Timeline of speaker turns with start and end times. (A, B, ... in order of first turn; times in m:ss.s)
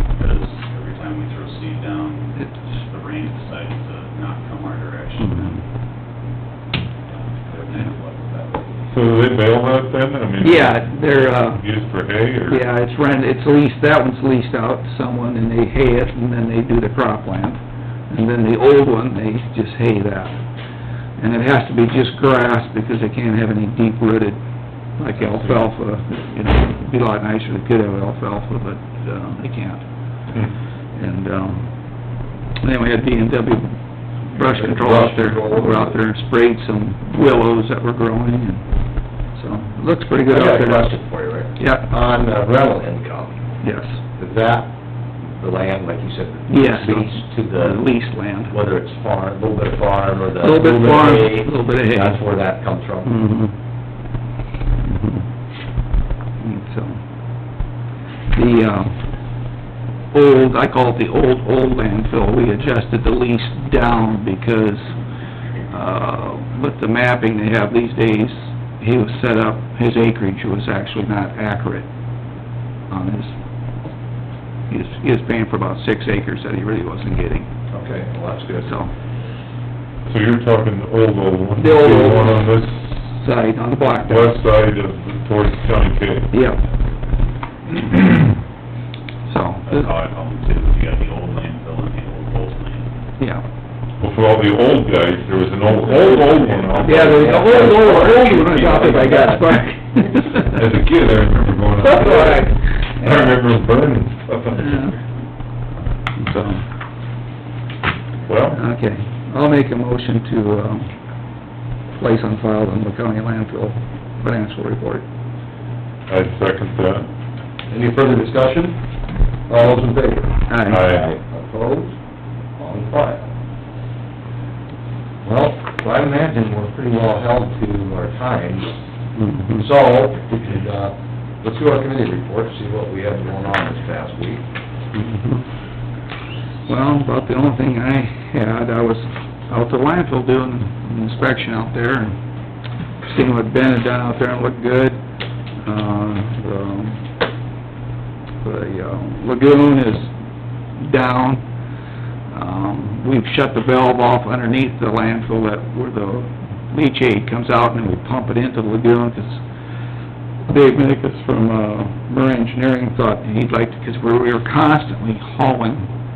0:00.2-0:05.6 A
0:05.2-0:05.6 B
0:07.1-0:08.9 A
0:08.9-0:12.6 C
0:10.4-0:11.6 B
0:12.5-0:17.6 B
0:18.1-0:20.4 B
0:21.2-0:24.4 B
0:25.0-0:29.8 B
0:31.0-0:31.7 B
0:32.6-0:33.8 B
0:34.3-0:38.6 B
0:34.4-0:36.0 D
0:39.4-0:40.9 B
0:40.3-0:43.4 D
0:41.6-0:41.9 B
0:43.6-0:44.0 B
0:44.2-0:44.7 D
0:45.4-0:47.9 D
0:46.5-0:48.5 B
0:48.5-0:53.2 D
0:50.4-0:52.2 B
0:53.1-0:53.5 B
0:54.9-0:55.2 B
0:56.4-0:57.0 B
0:58.3-0:59.0 B
1:00.1-1:04.9 B
1:05.7-1:11.9 B
1:12.9-1:13.4 B
1:14.7-1:17.5 B
1:17.7-1:18.8 D
1:18.6-1:18.9 B
1:20.1-1:22.9 C
1:21.6-1:24.4 B
1:23.9-1:26.3 C
1:26.3-1:26.6 B
1:29.3-1:29.9 B
1:29.7-1:32.9 A
1:33.2-1:33.4 B
1:34.0-1:37.4 C
1:35.8-1:39.5 D
1:36.8-1:40.6 B
1:40.4-1:44.9 C
1:41.8-1:43.2 B
1:44.6-1:45.0 B
1:46.2-1:46.6 B
1:48.3-1:48.6 C
1:48.5-1:50.9 B
1:52.0-1:55.0 B
1:56.1-1:57.1 C
1:57.7-1:58.8 D
1:59.5-2:01.9 D
2:00.5-2:01.0 B
2:00.7-2:01.0 C
2:02.6-2:03.3 D
2:05.2-2:08.7 D
2:09.2-2:09.6 B
2:09.6-2:14.4 D
2:15.0-2:15.4 B
2:16.7-2:22.2 B
2:23.0-2:25.0 B
2:25.6-2:27.1 B
2:28.4-2:30.1 B
2:30.8-2:31.4 B
2:32.3-2:39.4 B
2:40.5-2:45.9 B